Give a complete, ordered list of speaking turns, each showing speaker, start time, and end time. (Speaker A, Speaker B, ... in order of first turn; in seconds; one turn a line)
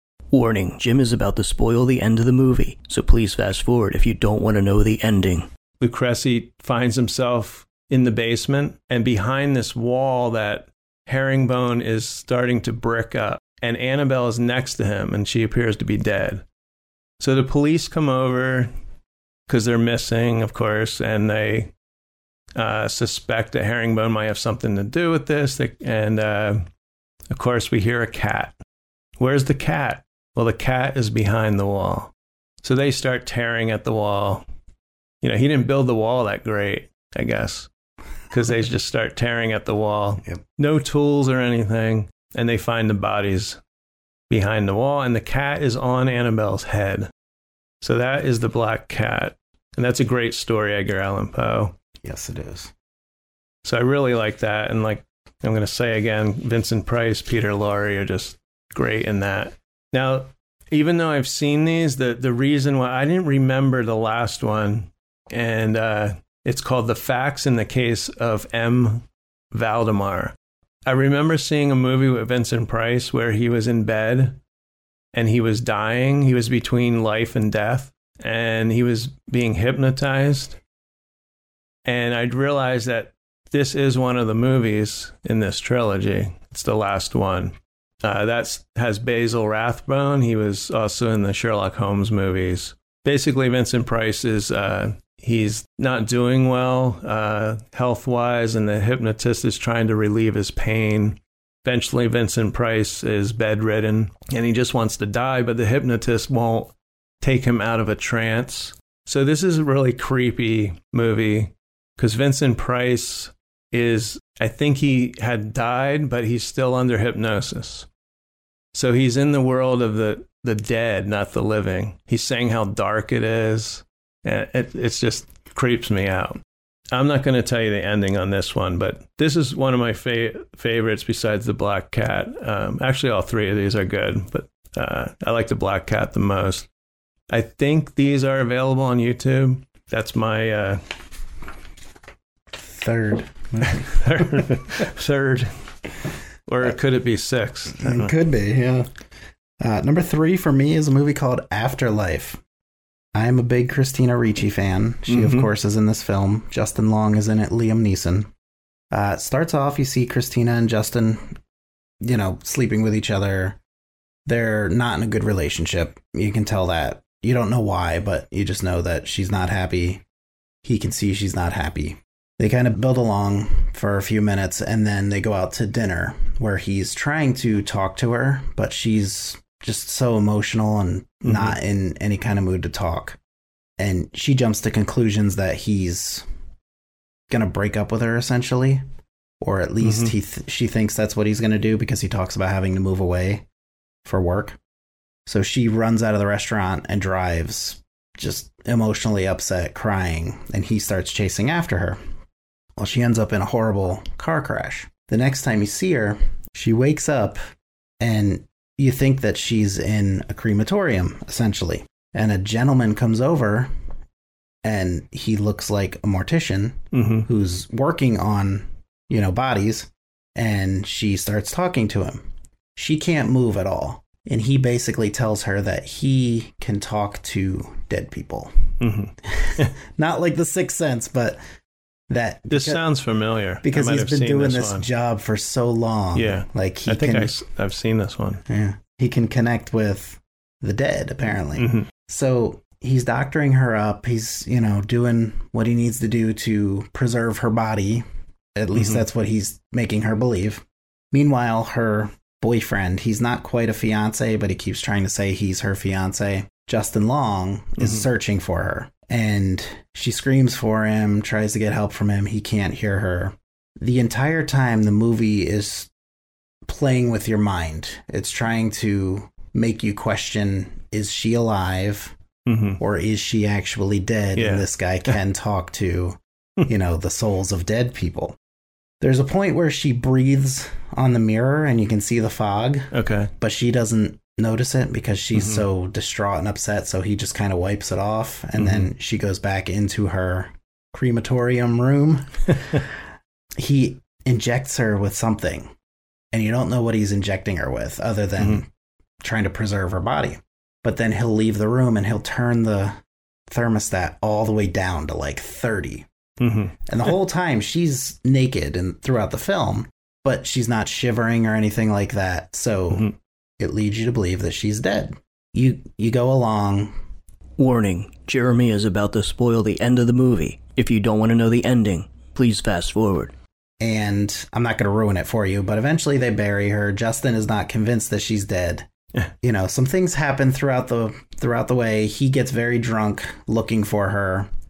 Speaker A: 0.3-5.5
Speaker B: 5.8-16.4
Speaker B: 17.2-18.7
Speaker B: 19.5-21.7
Speaker B: 22.6-26.6
Speaker B: 27.3-28.6
Speaker B: 29.2-32.1
Speaker B: 32.6-34.4
Speaker B: 35.2-37.7
Speaker B: 38.3-43.6
Speaker B: 44.3-47.1
Speaker B: 47.8-51.8
Speaker C: 52.0-52.7
Speaker B: 53.6-74.4
Speaker B: 75.1-80.6
Speaker B: 81.8-117.9
Speaker B: 118.7-126.4
Speaker B: 126.9-136.7
Speaker B: 137.3-140.9
Speaker C: 142.5-144.5
Speaker B: 143.6-145.6
Speaker B: 146.5-148.1
Speaker C: 147.8-148.9
Speaker C: 149.6-152.4
Speaker C: 153.1-158.3
Speaker B: 155.1-155.5
Speaker C: 158.9-161.4
Speaker C: 162.0-163.6
Speaker C: 164.3-170.0
Speaker C: 170.6-183.2
Speaker B: 181.2-181.6
Speaker C: 183.8-186.3
Speaker C: 187.3-188.8
Speaker C: 189.4-193.4
Speaker B: 189.8-190.1
Speaker C: 194.1-194.6
Speaker C: 195.3-202.0
Speaker C: 202.8-207.4
Speaker C: 208.0-213.7
Speaker C: 214.6-231.4
Speaker B: 216.9-217.3
Speaker B: 228.8-229.7
Speaker C: 232.1-232.8
Speaker B: 232.5-234.9
Speaker C: 233.6-237.3
Speaker B: 236.1-238.4
Speaker C: 238.5-248.1
Speaker B: 241.6-241.9
Speaker C: 248.6-265.9
Speaker B: 248.8-249.0
Speaker B: 257.8-258.1
Speaker C: 266.6-272.1
Speaker B: 272.5-272.8
Speaker C: 272.8-278.4
Speaker B: 274.4-274.7
Speaker C: 279.0-292.9
Speaker B: 282.9-283.3
Speaker B: 285.4-285.7
Speaker B: 288.6-288.9
Speaker C: 293.6-295.7
Speaker C: 296.3-298.7
Speaker C: 299.2-306.1
Speaker B: 306.4-306.8
Speaker C: 306.9-316.9
Speaker A: 317.6-323.3
Speaker C: 323.8-328.9
Speaker C: 329.4-334.5